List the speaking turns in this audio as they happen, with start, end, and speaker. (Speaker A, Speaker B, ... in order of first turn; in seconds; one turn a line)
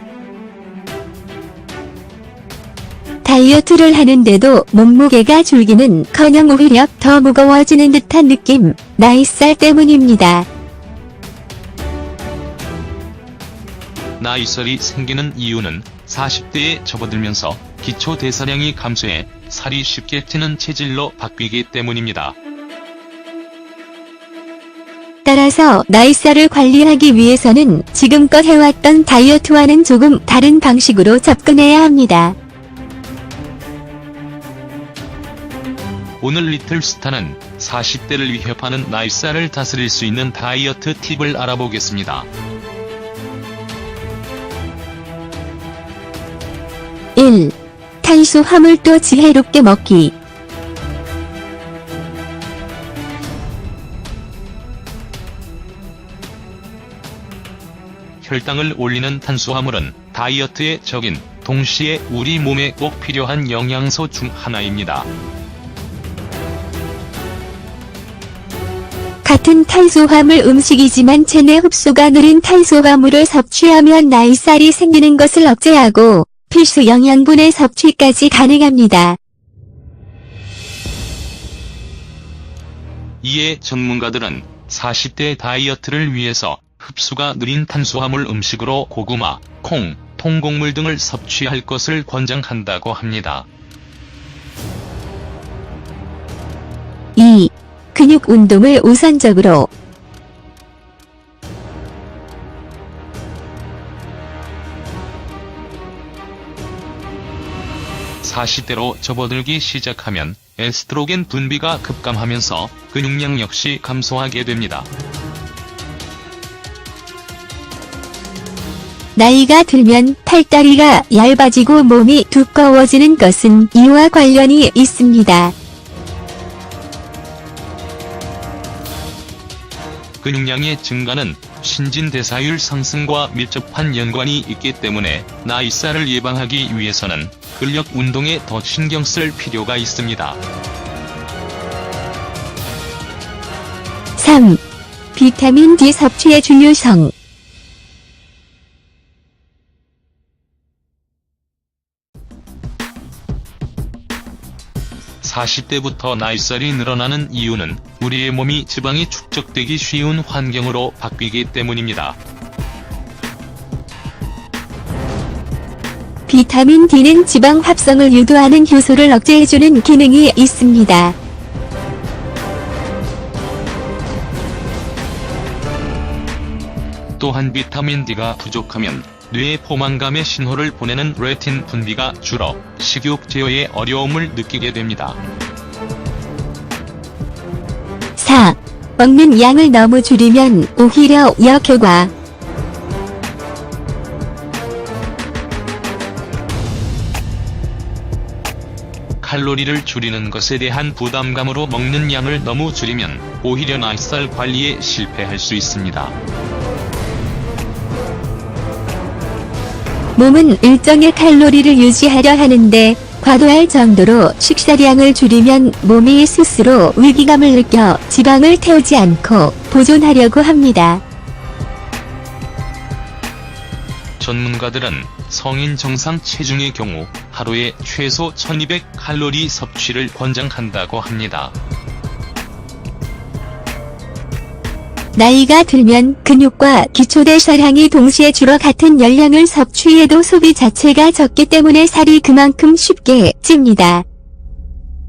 Speaker A: 3.2-10.5
Speaker B: 14.2-22.4
Speaker A: 25.2-32.4
Speaker B: 36.2-42.3
Speaker A: 47.2-50.1
Speaker B: 58.2-65.1
Speaker A: 69.2-79.2
Speaker B: 83.2-93.5
Speaker A: 97.2-99.7
Speaker B: 108.2-114.9
Speaker A: 119.2-125.5
Speaker B: 130.2-140.4
Speaker A: 144.2-144.6
Speaker A: 145.2-147.1
Speaker B: 155.2-162.2
Speaker A: 166.3-171.2
Speaker B: 177.2-185.2
Speaker A: 188.2-192.1
Speaker B: 199.2-206.2
Speaker A: 210.2-221.0
Speaker B: 224.2-231.5
Speaker A: 235.2-244.1